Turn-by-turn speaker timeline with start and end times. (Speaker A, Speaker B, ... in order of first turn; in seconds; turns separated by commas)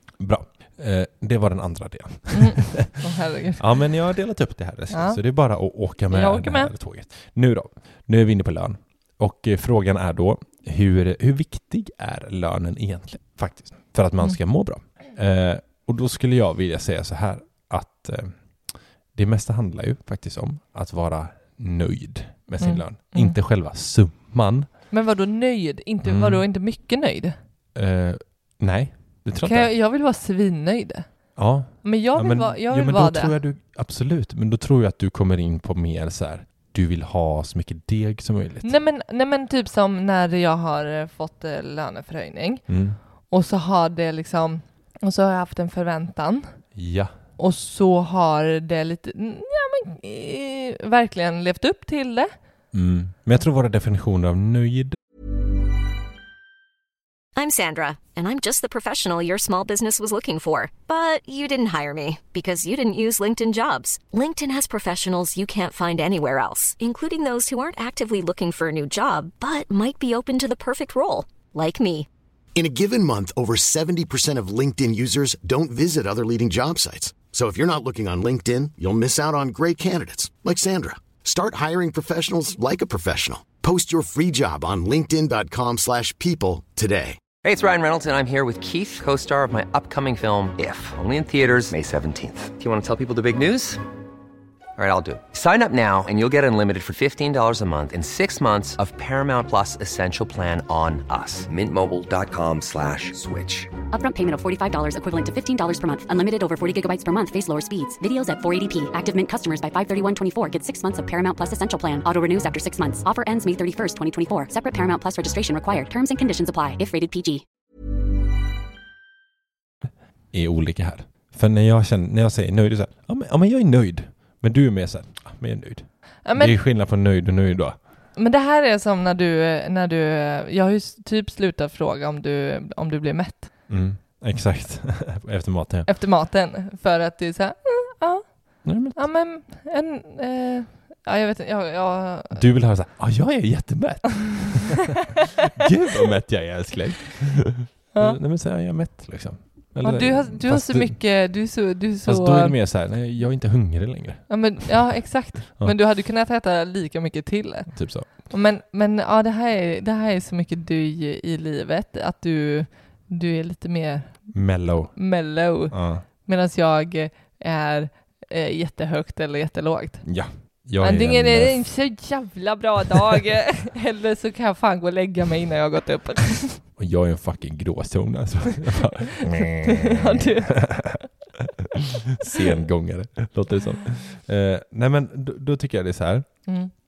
Speaker A: 0.2-3.0, Speaker B: 2.3-3.6, Speaker A: 3.6-24.7, Speaker B: 4.9-5.2, Speaker B: 6.1-6.7, Speaker B: 22.6-23.4, Speaker B: 24.9-27.3, Speaker A: 26.0-26.4, Speaker A: 27.7-29.7, Speaker B: 29.4-31.1, Speaker A: 31.4-38.7, Speaker B: 31.8-33.4, Speaker B: 38.6-42.6, Speaker A: 42.7-43.0, Speaker B: 43.3-46.5, Speaker A: 46.7-47.1, Speaker B: 47.4-52.3, Speaker A: 52.7-55.0, Speaker C: 57.4-72.1, Speaker D: 72.5-87.2, Speaker E: 87.4-93.8, Speaker E: 94.8-103.7, Speaker F: 103.9-117.4, Speaker A: 120.3-127.8, Speaker B: 126.2-126.6, Speaker B: 128.2-133.5, Speaker A: 133.7-135.9, Speaker B: 135.9-142.4, Speaker A: 138.6-139.0, Speaker A: 142.3-151.0, Speaker B: 149.8-152.5, Speaker A: 152.1-154.7, Speaker B: 154.3-164.3, Speaker A: 157.7-158.1, Speaker A: 164.3-165.0, Speaker B: 164.9-170.0, Speaker A: 165.7-166.0, Speaker A: 170.0-171.7, Speaker B: 170.8-176.6, Speaker A: 176.8-186.3, Speaker B: 179.1-180.5